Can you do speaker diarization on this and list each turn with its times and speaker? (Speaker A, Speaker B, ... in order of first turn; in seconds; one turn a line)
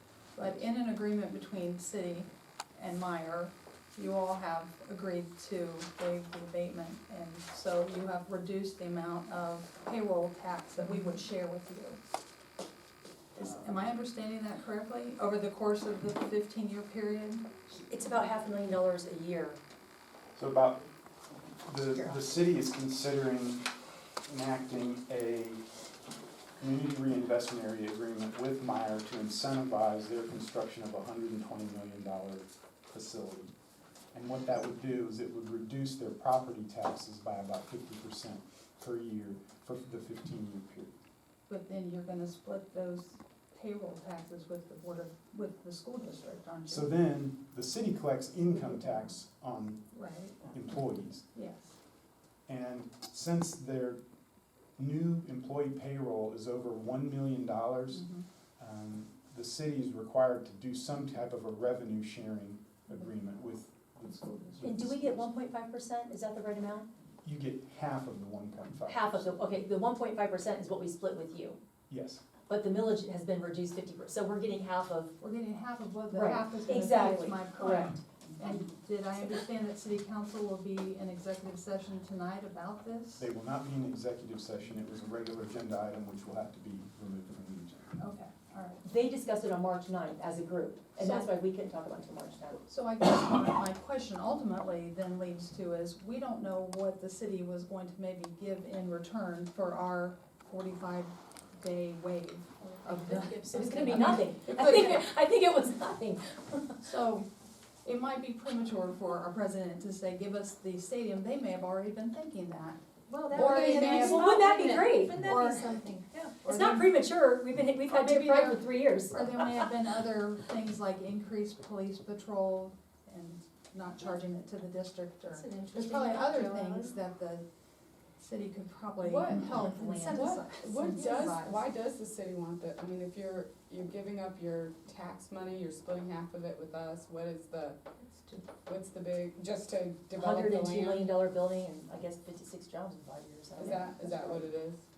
Speaker A: 0.4-12.0
Speaker B: 10.8-11.2
Speaker A: 13.3-17.5
Speaker C: 13.4-13.9
Speaker B: 17.8-19.6
Speaker C: 20.4-20.9
Speaker C: 21.7-23.7
Speaker B: 21.9-22.2
Speaker C: 24.3-25.6
Speaker C: 26.6-33.5
Speaker C: 34.1-41.0
Speaker A: 41.5-46.9
Speaker C: 46.7-49.8
Speaker A: 48.6-49.0
Speaker A: 49.9-50.5
Speaker C: 50.5-51.2
Speaker A: 51.3-51.8
Speaker C: 52.5-54.0
Speaker C: 54.8-58.1
Speaker A: 57.9-58.2
Speaker C: 58.6-65.3
Speaker B: 64.6-66.9
Speaker C: 67.2-69.4
Speaker B: 68.9-71.6
Speaker C: 71.9-72.2
Speaker B: 72.5-75.2
Speaker A: 75.2-83.3
Speaker B: 76.1-78.7
Speaker C: 83.2-88.0
Speaker A: 88.0-88.8
Speaker B: 88.8-92.6
Speaker A: 91.0-91.3
Speaker A: 92.7-105.0
Speaker D: 102.8-105.0
Speaker B: 102.9-106.8
Speaker A: 106.8-107.3
Speaker A: 107.8-112.8
Speaker D: 113.1-116.1
Speaker A: 113.3-114.2
Speaker E: 113.3-114.3
Speaker B: 113.7-115.4
Speaker A: 115.1-115.9
Speaker B: 116.1-119.7
Speaker A: 116.4-117.0
Speaker A: 117.9-127.5
Speaker D: 125.3-127.0
Speaker A: 128.2-131.7
Speaker E: 129.0-137.8
Speaker B: 129.4-130.2
Speaker E: 138.6-141.1
Speaker B: 140.1-144.2
Speaker E: 143.6-144.8